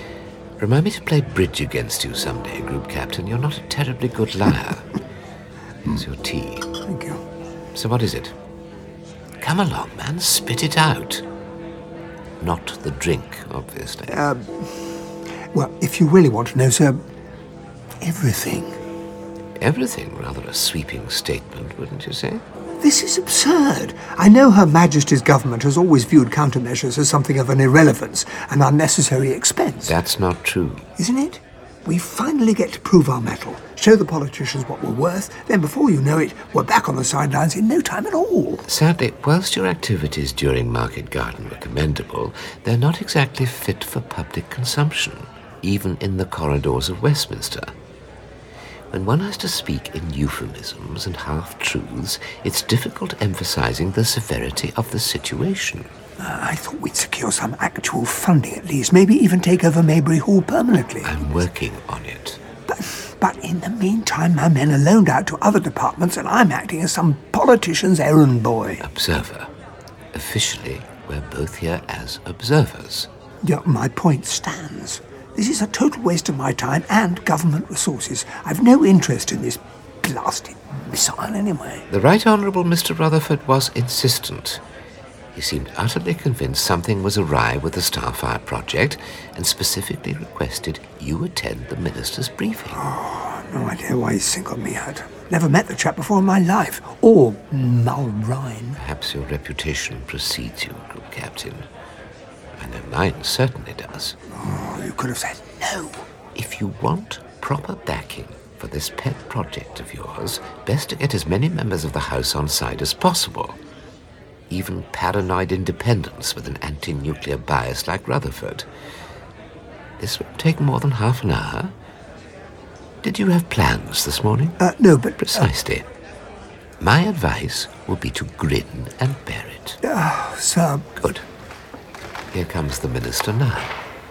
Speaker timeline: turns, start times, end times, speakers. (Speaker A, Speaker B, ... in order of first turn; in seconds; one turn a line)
Speaker A: 0.6-4.9
Speaker A: 5.9-6.7
Speaker B: 6.8-7.2
Speaker A: 7.7-8.3
Speaker A: 9.4-11.2
Speaker A: 12.4-14.2
Speaker B: 14.1-14.6
Speaker B: 15.5-17.0
Speaker B: 18.0-18.8
Speaker A: 19.6-22.4
Speaker B: 22.8-29.9
Speaker A: 29.9-30.9
Speaker B: 31.0-38.6
Speaker A: 38.7-47.7
Speaker A: 48.9-55.9
Speaker B: 56.2-61.1
Speaker A: 61.0-62.4
Speaker B: 62.7-68.8
Speaker A: 68.8-69.5
Speaker A: 70.1-73.1
Speaker B: 73.4-81.9
Speaker A: 81.9-84.6
Speaker A: 85.3-92.8
Speaker B: 92.7-98.8
Speaker A: 98.8-101.7
Speaker A: 102.6-104.2
Speaker B: 104.3-106.0
Speaker A: 106.3-113.6
Speaker A: 114.5-118.7
Speaker A: 120.0-121.7
Speaker A: 123.0-124.6
Speaker B: 124.6-125.5
Speaker A: 125.2-125.8
Speaker A: 126.8-129.8
Speaker B: 129.8-130.8
Speaker A: 131.0-131.2
Speaker A: 132.3-133.7